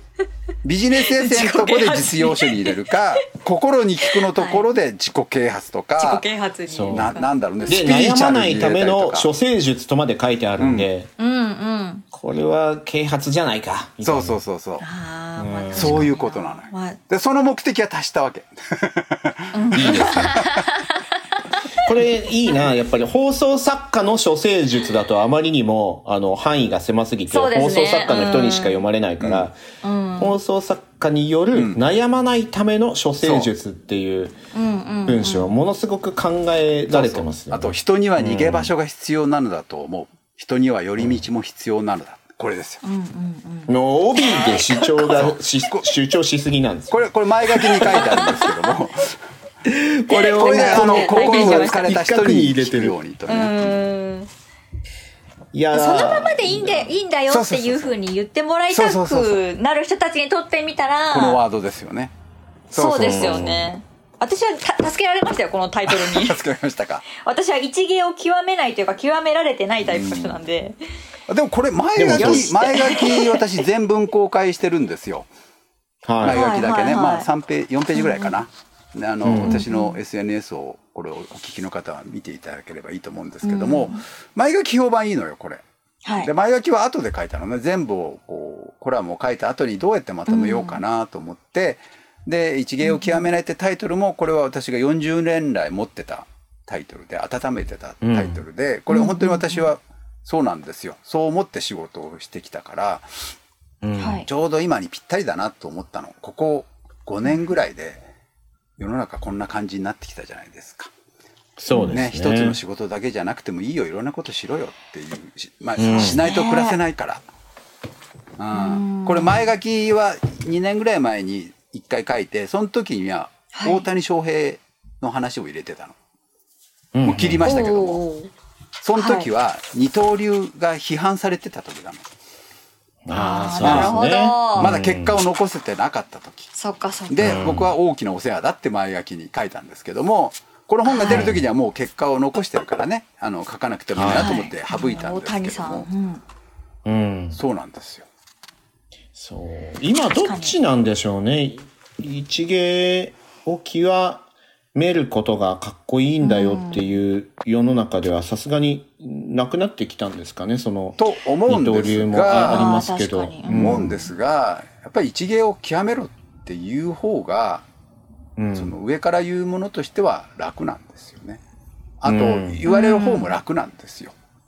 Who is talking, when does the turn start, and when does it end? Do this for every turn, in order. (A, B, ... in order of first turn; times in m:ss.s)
0:00.6-0:06.3 A
0:01.0-0:03.2 B
0:04.2-0:04.7 B
0:06.0-0:07.3 B
0:06.7-0:07.1 C
0:06.9-0:09.3 A
0:07.7-0:11.1 C
0:10.6-0:10.9 A
0:11.2-0:12.0 B
0:12.1-0:14.4 C
0:14.0-0:14.8 A
0:14.8-0:17.0 B
0:15.4-0:16.1 C
0:15.8-0:20.6 A
0:19.5-0:21.6 B
0:19.7-0:20.4 C
0:21.8-0:29.6 C
0:27.3-0:28.8 B
0:29.2-0:29.5 A
0:29.8-0:30.4 B
0:30.2-0:34.4 C
0:31.5-0:31.8 A
0:33.2-0:33.5 A
0:34.5-0:35.5 B
0:35.1-0:38.7 C
0:36.9-0:42.8 A
0:41.0-0:41.2 C
0:42.8-0:45.4 B
0:43.7-0:47.0 C
0:45.1-0:45.9 A
0:46.9-0:49.2 A
0:47.6-0:48.6 B
0:47.9-0:48.3 C
0:49.6-0:53.0 C
0:50.1-0:51.9 B
0:50.3-0:53.9 A
0:53.3-0:54.3 B
0:55.5-0:56.9 C
0:55.7-1:01.4 B
0:57.3-0:58.0 A
0:58.7-0:59.4 A
1:01.1-1:02.1 A
1:02.7-1:03.5 A
1:02.7-1:06.4 B
1:03.0-1:03.7 C
1:05.9-1:07.1 A
1:07.1-1:10.8 B
1:09.9-1:10.4 A
1:11.3-1:15.3 A
1:12.0-1:12.6 C
1:12.2-1:13.4 B
1:16.0-1:16.4 C
1:16.2-1:25.6 A
1:16.2-1:17.3 B
1:17.9-1:18.3 B
1:19.2-1:19.6 C
1:19.4-1:20.0 B
1:23.4-1:24.0 B
1:26.0-1:26.3 B
1:26.2-1:43.1 A
1:30.3-1:30.8 B
1:32.8-1:33.3 B
1:38.0-1:38.4 C
1:38.9-1:39.7 B
1:43.8-1:44.2 C
1:44.0-1:44.3 B
1:44.2-1:48.1 A
1:48.8-1:50.9 A
1:51.6-1:52.6 C
1:51.7-1:52.0 B
1:51.9-1:57.3 A
1:55.8-1:56.2 C
1:55.8-1:56.8 B
1:58.4-2:06.0 A
1:58.5-1:59.5 B
2:03.5-2:03.8 B
2:06.9-2:07.5 C
2:07.0-2:08.0 A
2:07.4-2:08.3 B
2:08.8-2:12.1 A
2:09.0-2:09.3 B
2:13.0-2:15.2 C
2:13.1-2:14.7 B
2:13.6-2:14.0 A
2:14.6-2:16.5 A
2:16.6-2:17.5 B
2:17.1-2:25.9 A
2:17.2-2:17.7 C
2:20.8-2:21.4 B
2:21.1-2:21.5 C
2:23.9-2:24.4 C
2:24.1-2:26.2 B
2:26.8-2:27.4 C
2:27.3-2:28.1 A
2:29.1-2:44.0 C
2:30.2-2:30.6 B
2:36.2-2:37.0 B
2:41.0-2:42.7 A
2:42.3-2:44.1 B
2:43.5-2:47.6 A
2:48.4-2:48.7 C
2:48.6-2:51.4 A
2:52.0-2:54.2 A
2:52.0-2:52.6 C
2:52.7-2:53.4 B